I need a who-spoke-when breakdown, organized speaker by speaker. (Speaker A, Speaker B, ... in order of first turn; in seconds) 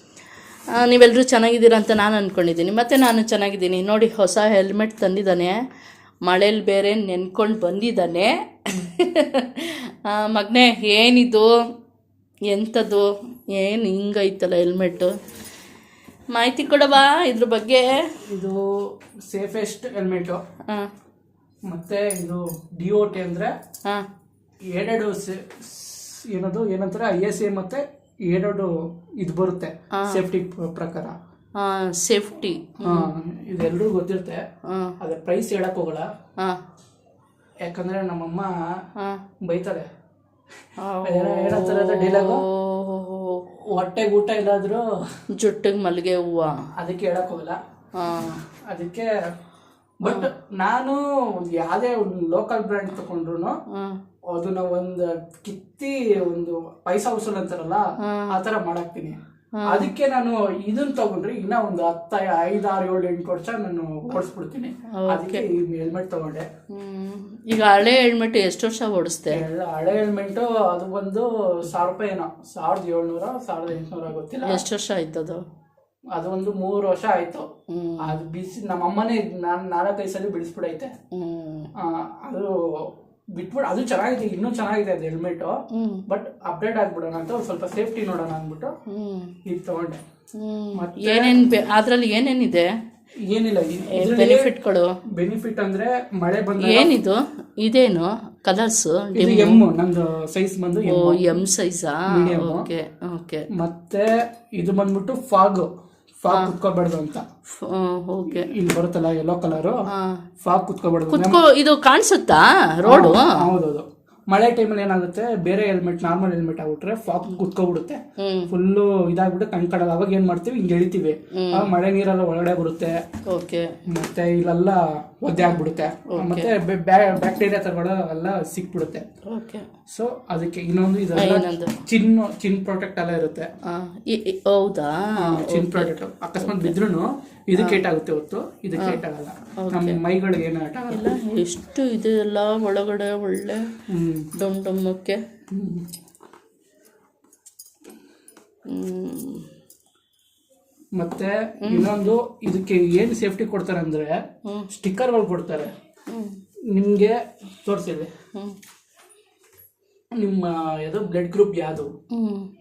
Speaker A: 0.7-5.6, 6.2-11.5, 12.5-15.1, 16.3-18.1, 29.9-30.2, 31.6-33.1, 34.6-35.0, 40.8-43.4, 45.4-46.7, 48.0-48.4, 53.7-54.0, 58.0-58.3, 59.6-59.9, 64.9-65.5, 66.7-69.5, 74.5-75.4, 77.7-78.2, 81.1-81.7, 85.7-86.0, 88.9-89.3, 90.4-92.7, 93.9-95.0, 96.6-99.6, 100.8-103.5, 107.5-108.5, 109.9-110.2, 111.1-113.5, 118.2-118.5, 121.3-121.7, 123.3-123.7, 125.4-126.5, 129.3-129.7, 131.2-131.8, 133.7-136.8, 137.6-137.8, 139.6-140.0, 140.9-143.7, 144.4-145.2, 148.7-149.5, 151.7-151.9, 156.1-156.4, 162.1-162.5
Speaker B: 18.3-20.4, 21.7-23.5, 24.7-31.2, 32.8-34.4, 35.0-36.1, 37.6-38.5, 39.5-39.9, 41.0-42.4, 43.7-44.9, 46.8-47.6, 48.3-49.1, 50.0-53.6, 54.3-66.5, 69.3-74.7, 76.1-77.5, 78.0-81.0, 81.8-88.7, 89.5-90.0, 90.7-91.4, 93.3-94.5, 95.1-96.9, 99.2-101.4, 102.1-102.7, 103.5-105.7, 106.2-107.2, 108.3-109.8, 110.4-111.4, 112.9-123.0, 123.9-129.1, 129.9-133.5, 135.2-141.1, 143.9-144.3, 145.5-145.9, 150.9-154.2, 154.7-155.7, 156.7-158.1, 160.2-161.9